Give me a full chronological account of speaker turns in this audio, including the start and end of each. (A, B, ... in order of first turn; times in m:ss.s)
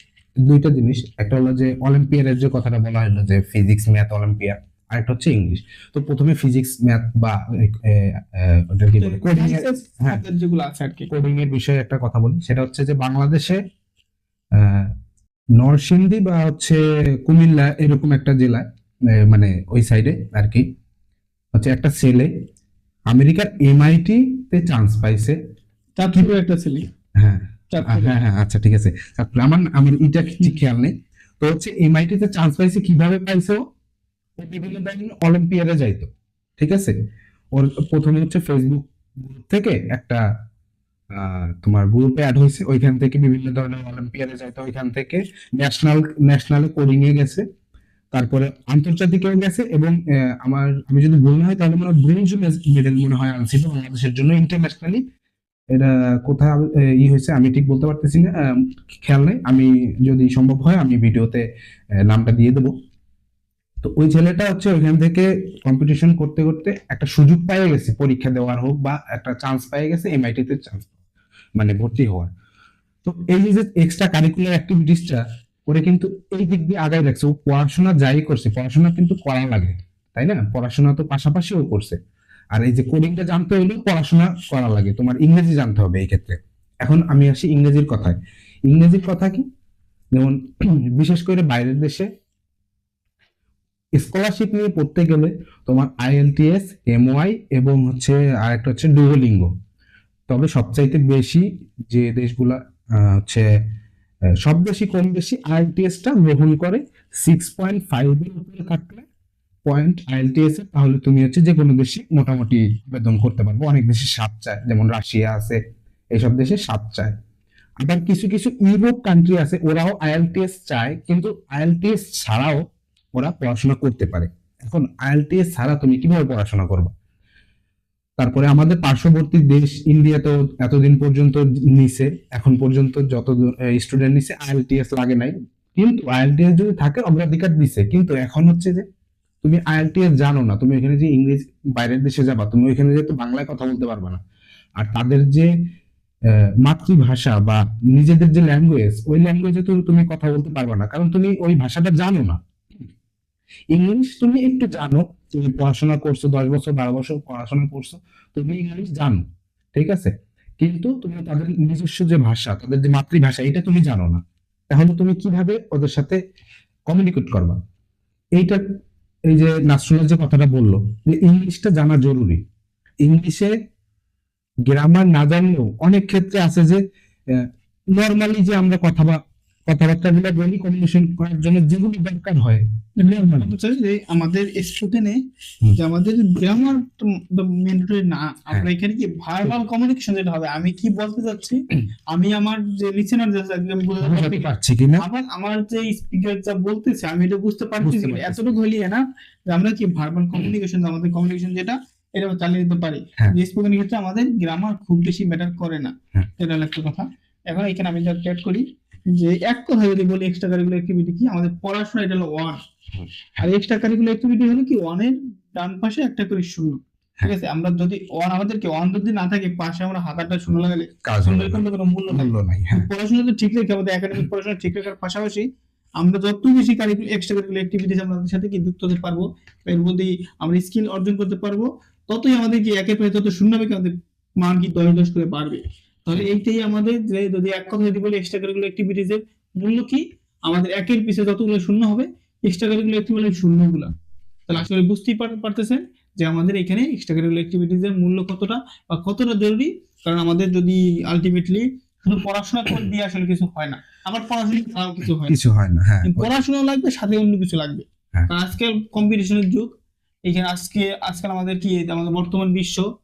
0:00.4-0:10.2 A
0:09.0-0:11.1 B
0:11.1-0:13.6 A
0:14.5-0:14.9 A
0:15.6-0:20.6 A
0:21.5-0:22.3 A
0:23.1-0:25.4 A
0:26.0-0:26.9 B
0:27.2-0:33.6 A
0:27.7-0:28.1 B
0:34.4-0:37.0 A
0:37.5-0:40.2 A
0:41.1-0:47.4 A
0:48.1-0:55.0 A
0:55.7-0:58.5 A
0:59.0-1:01.4 A
1:02.0-1:02.7 A
1:03.8-1:10.9 A
1:11.6-1:12.3 A
1:13.0-1:22.0 A
1:22.5-1:28.2 A
1:28.7-1:29.4 A
1:30.1-1:30.4 A
1:30.9-1:32.1 A
1:34.0-1:39.5 A
1:40.3-1:43.4 A
1:44.4-1:49.0 A
1:49.6-1:55.6 A
1:56.1-1:57.1 A
1:57.8-2:02.6 A
2:03.2-2:06.9 A
2:08.2-2:18.8 A
2:19.4-2:24.2 A
2:24.8-2:25.5 A
2:26.6-2:32.4 A
2:33.7-2:46.2 A
2:46.9-2:47.6 A
2:48.4-2:48.6 A
2:49.3-2:52.4 A
2:53.0-2:53.5 A
2:54.7-3:03.5 A
3:03.1-3:05.2 B
3:05.8-3:32.6 B
3:14.0-3:15.0 A
3:17.8-3:18.5 A
3:33.0-3:33.4 A
3:33.4-3:45.5 B
3:41.0-3:42.9 A
3:46.0-4:03.9 B
4:04.5-4:15.3 B
4:15.2-4:16.4 A
4:16.0-4:19.8 B
4:20.3-4:22.9 B